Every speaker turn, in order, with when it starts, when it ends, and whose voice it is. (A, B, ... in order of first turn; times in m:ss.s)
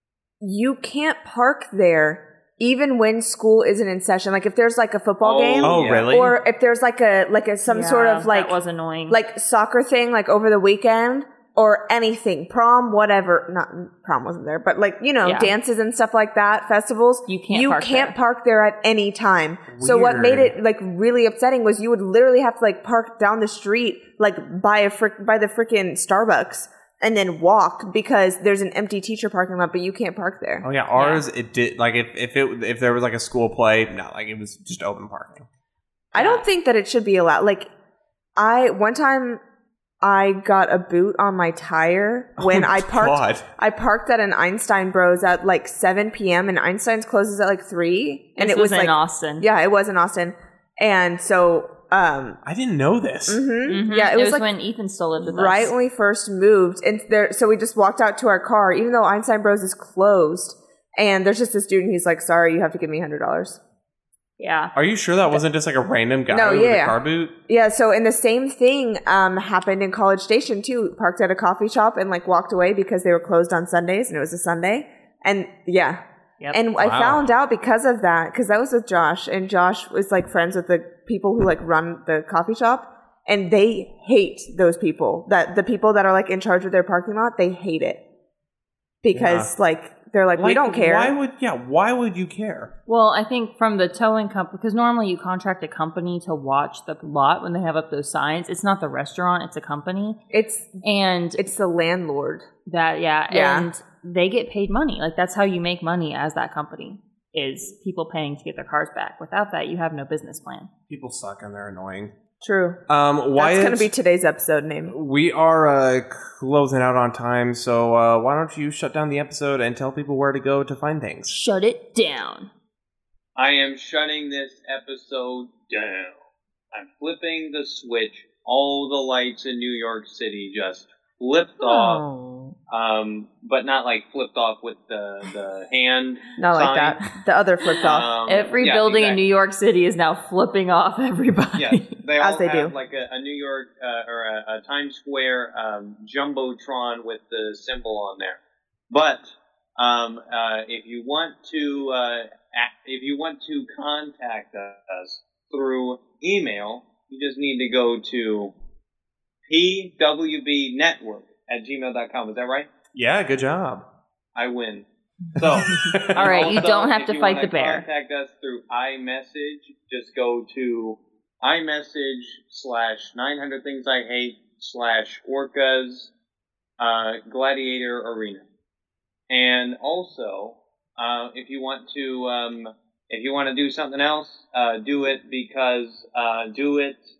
0:00.4-0:08.6 A
0:05.2-0:06.1 B
0:05.6-0:06.4 C
0:07.7-0:09.2 D
0:09.1-0:30.7 A
0:15.2-0:15.5 D
0:17.3-0:18.2 D
0:19.7-0:20.6 C
0:30.6-0:35.5 C
0:31.0-0:31.2 D
0:36.1-0:37.7 A
0:36.2-0:36.4 D
0:38.4-0:39.4 A
0:40.0-0:52.4 A
0:42.4-0:43.5 C
0:48.4-0:49.5 D
0:52.4-0:53.4 C
0:53.3-0:54.5 A
0:53.7-0:55.7 D
0:55.2-1:03.6 A
1:04.4-1:04.7 D
1:04.8-1:07.3 C
1:06.3-1:16.0 A
1:16.5-1:28.0 A
1:16.8-1:17.3 C
1:29.0-1:31.2 A
1:29.1-1:29.5 C
1:30.3-1:32.7 C
1:32.9-1:40.2 D
1:40.3-1:40.8 A
1:40.8-1:41.4 D
1:41.4-1:42.5 A
1:42.7-1:50.7 D
1:43.3-1:43.7 A
1:50.9-1:52.1 C
1:52.4-1:52.8 A
1:52.9-1:53.9 C
1:53.4-1:54.9 A
1:54.9-2:01.4 C
2:01.3-2:02.5 D
2:03.4-2:06.2 B
2:06.7-2:12.0 B
2:11.6-2:12.5 D
2:12.7-2:17.0 B
2:16.4-2:18.1 A
2:17.8-2:19.2 B
2:18.2-2:21.9 D
2:21.6-2:28.4 B
2:22.2-2:22.7 A
2:28.9-2:38.5 B
2:39.5-2:42.7 B
2:42.9-2:43.8 C
2:44.4-2:56.1 B
2:45.4-2:46.4 C
2:45.9-2:47.9 D
2:56.8-2:58.4 B
2:59.3-3:07.0 B